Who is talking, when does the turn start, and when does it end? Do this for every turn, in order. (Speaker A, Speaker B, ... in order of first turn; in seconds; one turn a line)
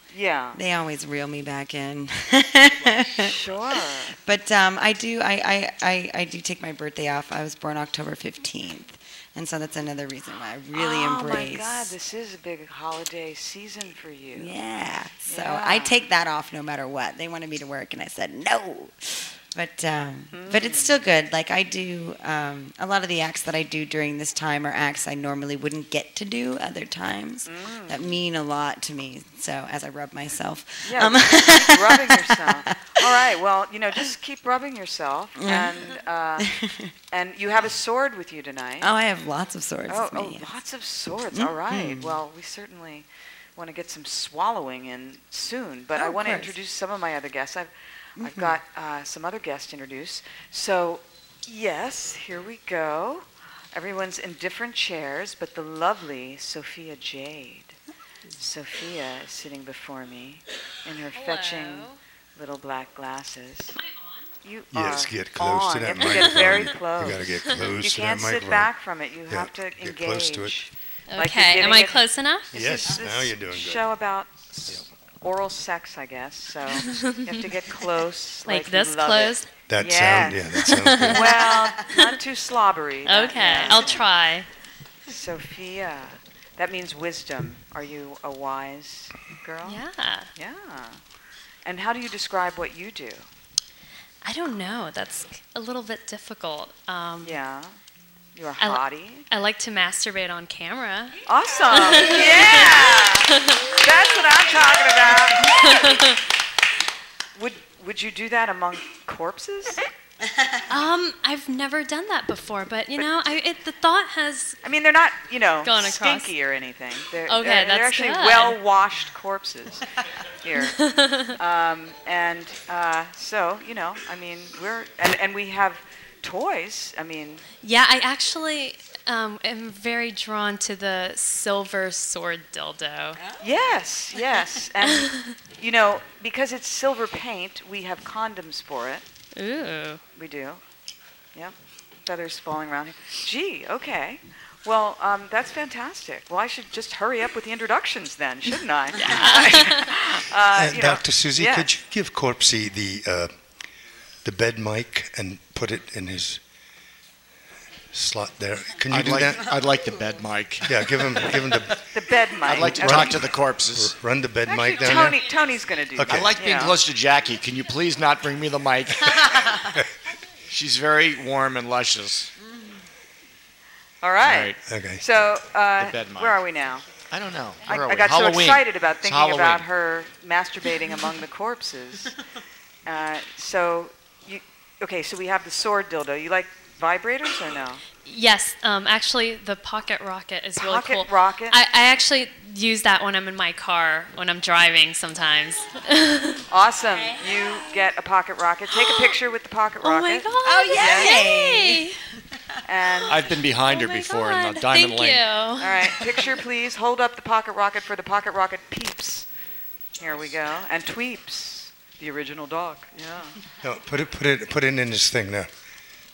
Speaker A: 0.1-0.6
Speaker B: 0.5-3.4
Speaker A: 3.2-4.2
Speaker B: 4.2-11.9
Speaker A: 10.7-14.5
Speaker B: 14.3-33.3
Speaker A: 15.3-16.0
Speaker A: 20.3-21.0
Speaker A: 27.5-28.0
Speaker A: 30.9-36.5
Speaker B: 35.4-36.9
Speaker A: 37.1-38.9
Speaker B: 38.8-40.5
Speaker A: 39.9-57.8
Speaker B: 41.3-42.2
Speaker B: 46.0-46.6
Speaker B: 48.2-48.6
Speaker A: 58.4-63.8
Speaker C: 61.1-62.0
Speaker C: 63.7-64.3
Speaker A: 64.4-84.1
Speaker D: 64.7-68.7
Speaker D: 69.3-70.5
Speaker C: 71.1-72.5
Speaker D: 72.5-73.9
Speaker C: 76.8-77.4
Speaker C: 78.5-79.5
Speaker D: 79.6-81.4
Speaker C: 80.6-82.2
Speaker C: 83.0-84.5
Speaker A: 85.1-89.8
Speaker C: 89.6-90.3
Speaker A: 90.4-91.0
Speaker A: 91.7-93.3
Speaker C: 94.2-97.4
Speaker A: 97.2-97.8
Speaker A: 98.3-99.3
Speaker C: 98.6-101.2
Speaker A: 101.3-105.9
Speaker C: 101.7-103.9
Speaker C: 105.5-106.2
Speaker A: 107.4-109.8
Speaker C: 110.7-114.6
Speaker A: 114.6-119.9
Speaker C: 115.6-116.3
Speaker C: 117.3-118.6
Speaker A: 120.4-120.8
Speaker C: 120.6-121.4
Speaker A: 121.4-127.4
Speaker C: 127.6-133.3
Speaker A: 133.4-139.1
Speaker C: 134.9-135.3
Speaker C: 139.3-140.0
Speaker A: 140.2-140.6
Speaker A: 141.3-151.7
Speaker C: 149.0-149.9
Speaker D: 150.6-153.3
Speaker D: 154.2-156.4
Speaker D: 157.9-159.5
Speaker E: 158.9-161.3
Speaker D: 160.7-161.8
Speaker A: 161.9-163.2
Speaker E: 162.4-163.9
Speaker D: 162.5-165.3
Speaker A: 164.5-166.8
Speaker D: 165.9-166.3
Speaker E: 166.1-169.7
Speaker E: 170.5-172.3
Speaker A: 174.0-176.8
Speaker E: 174.2-174.6
Speaker D: 174.7-175.0
Speaker E: 175.8-176.4
Speaker E: 177.1-179.7
Speaker A: 177.7-182.1
Speaker A: 182.9-187.8
Speaker C: 188.0-196.4
Speaker A: 190.6-191.6
Speaker A: 196.5-201.2
Speaker B: 197.0-197.7
Speaker C: 198.7-199.1
Speaker C: 199.8-202.0
Speaker B: 200.4-201.9
Speaker A: 202.7-203.2
Speaker E: 203.1-205.2
Speaker C: 203.7-205.9
Speaker A: 205.6-209.3
Speaker A: 210.0-213.4
Speaker D: 213.6-215.5